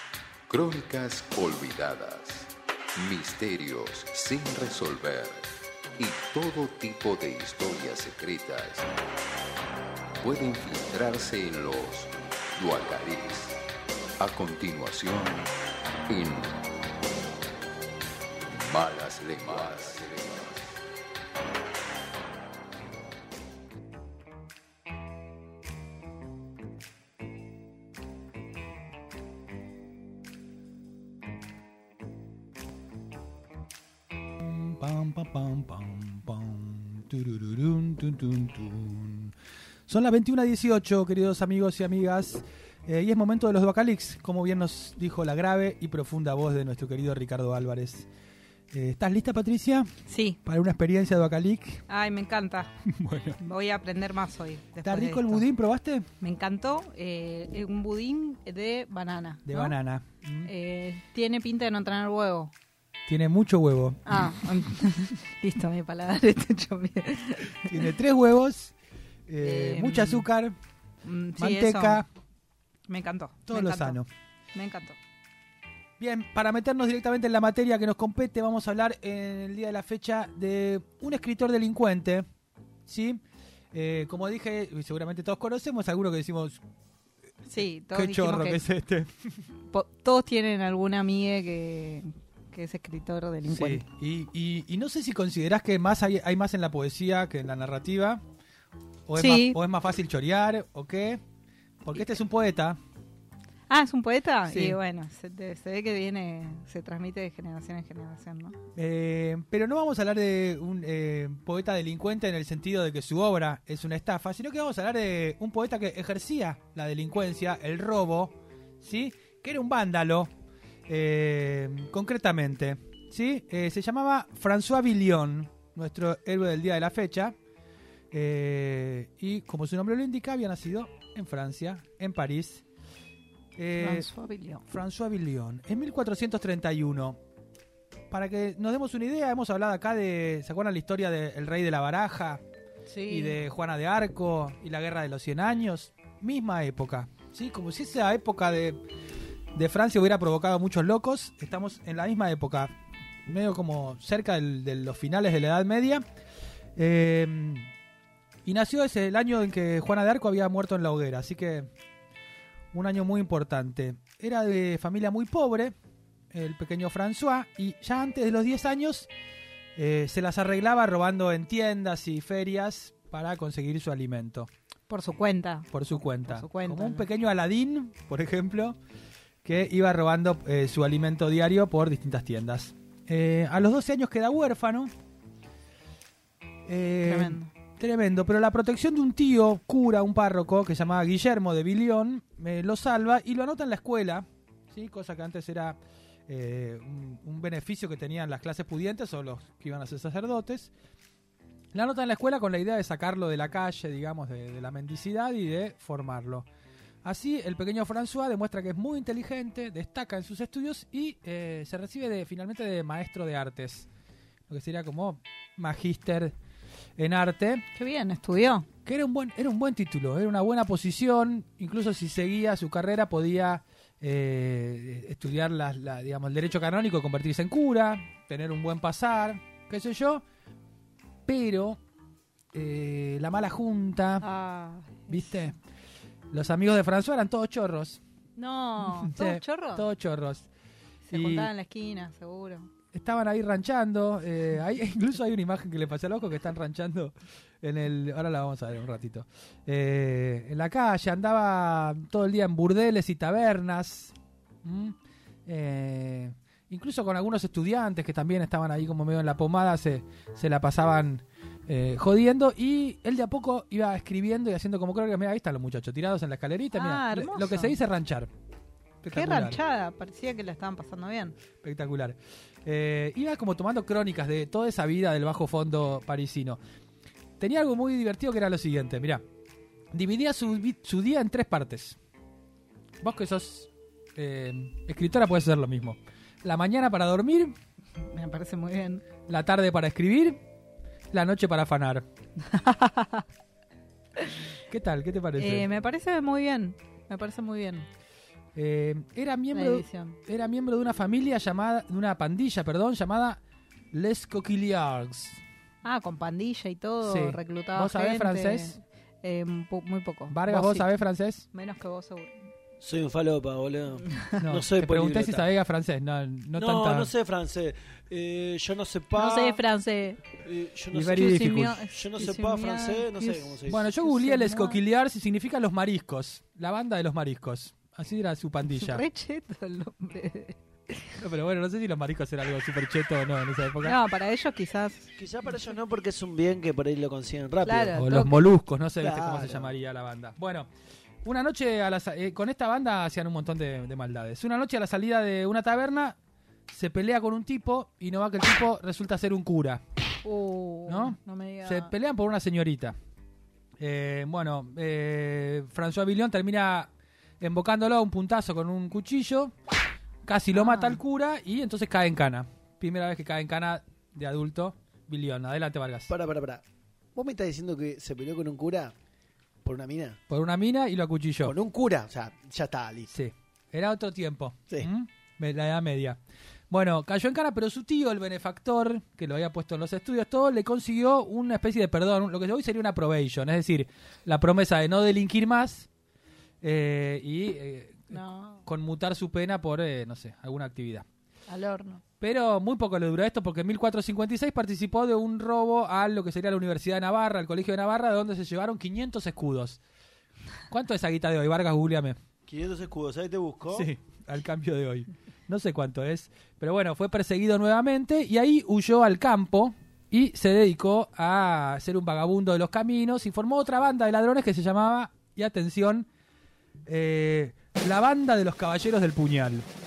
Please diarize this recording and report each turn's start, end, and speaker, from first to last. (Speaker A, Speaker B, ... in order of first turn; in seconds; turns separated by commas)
Speaker A: 0.5-2.5, Speaker A: 3.0-5.4, Speaker A: 6.0-8.9, Speaker A: 10.2-13.5, Speaker A: 14.2-15.4, Speaker A: 16.1-16.5, Speaker A: 18.6-20.6, Speaker B: 34.4-39.3, Speaker B: 39.9-48.1, Speaker B: 48.7-49.9, Speaker C: 50.0-50.4, Speaker B: 50.4-51.8, Speaker C: 51.9-52.7, Speaker B: 52.8-53.4, Speaker C: 53.4-55.5, Speaker B: 54.8-56.0, Speaker C: 56.2-59.8, Speaker B: 59.4-60.5, Speaker C: 60.5-62.5, Speaker B: 63.1-64.3, Speaker C: 64.0-68.0, Speaker B: 67.7-68.7, Speaker B: 69.3-70.5, Speaker C: 69.4-70.3, Speaker C: 71.0-72.0, Speaker B: 71.3-72.1, Speaker C: 72.9-74.0, Speaker B: 73.5-74.1, Speaker C: 74.5-75.0, Speaker B: 76.0-82.2, Speaker B: 82.8-83.2, Speaker B: 83.7-86.6, Speaker C: 87.5-88.6, Speaker B: 87.5-89.1, Speaker C: 89.7-93.9, Speaker B: 93.5-98.2, Speaker B: 99.1-101.2, Speaker C: 99.2-99.6, Speaker B: 101.8-102.8, Speaker C: 101.9-102.2, Speaker C: 103.7-108.5, Speaker B: 104.4-104.8, Speaker B: 108.8-120.3, Speaker B: 120.9-127.3, Speaker B: 128.1-132.6, Speaker B: 133.6-134.1, Speaker C: 133.8-134.6, Speaker B: 134.7-137.2, Speaker B: 138.1-142.4, Speaker C: 142.9-143.4, Speaker B: 143.1-148.8, Speaker B: 149.5-152.7, Speaker B: 153.2-156.0, Speaker B: 156.8-157.7, Speaker B: 158.4-161.7, Speaker B: 162.7-165.7, Speaker B: 166.3-169.1, Speaker B: 169.8-174.5, Speaker C: 174.9-177.1, Speaker B: 175.7-178.8, Speaker B: 179.4-184.9, Speaker B: 186.7-200.7, Speaker C: 187.0-187.5, Speaker B: 201.7-206.4, Speaker B: 207.0-213.9, Speaker B: 214.5-216.3, Speaker B: 217.0-217.6, Speaker C: 217.7-218.8, Speaker B: 218.8-230.2, Speaker B: 231.2-231.8, Speaker B: 232.5-234.2, Speaker C: 234.2-235.5, Speaker B: 235.1-235.6, Speaker B: 236.3-238.0, Speaker C: 238.3-239.9, Speaker B: 238.8-240.5, Speaker C: 241.1-242.8, Speaker B: 241.1-241.5, Speaker B: 242.8-254.9, Speaker B: 255.4-268.3, Speaker C: 266.7-267.8, Speaker B: 269.0-269.6, Speaker C: 269.1-271.4, Speaker B: 271.5-276.6, Speaker B: 277.4-279.2, Speaker B: 279.9-282.0, Speaker B: 283.0-287.5, Speaker C: 288.0-289.1, Speaker B: 289.2-290.4, Speaker B: 291.1-292.0, Speaker C: 292.4-293.2, Speaker B: 294.7-295.7, Speaker C: 295.3-297.9, Speaker B: 298.5-303.4, Speaker C: 299.5-300.2, Speaker B: 303.9-305.4, Speaker C: 305.8-312.3, Speaker B: 307.0-308.8, Speaker B: 310.3-311.4, Speaker D: 312.8-315.5, Speaker B: 314.4-317.1, Speaker D: 316.5-319.6, Speaker C: 319.1-320.2, Speaker D: 320.4-323.8, Speaker B: 320.9-321.8, Speaker C: 321.1-324.8, Speaker B: 323.6-329.0, Speaker C: 328.6-331.2, Speaker B: 331.2-334.0, Speaker C: 333.8-335.1, Speaker D: 335.2-337.9, Speaker C: 337.6-338.5, Speaker B: 337.9-340.7, Speaker D: 339.0-339.7, Speaker B: 341.2-346.1, Speaker B: 346.7-349.8, Speaker C: 350.2-351.9, Speaker B: 350.9-352.9, Speaker B: 353.8-356.9, Speaker B: 357.4-359.5, Speaker B: 360.2-366.1, Speaker C: 360.5-361.0, Speaker D: 366.1-366.6, Speaker D: 367.1-368.9, Speaker D: 369.6-370.2, Speaker B: 370.3-371.5, Speaker D: 371.4-373.1, Speaker B: 373.1-376.2, Speaker B: 376.7-385.9, Speaker B: 386.6-391.0, Speaker C: 388.1-388.7, Speaker C: 391.5-392.0, Speaker B: 392.2-399.8, Speaker B: 400.7-402.2, Speaker D: 402.4-403.9, Speaker B: 403.7-416.1, Speaker B: 416.8-419.7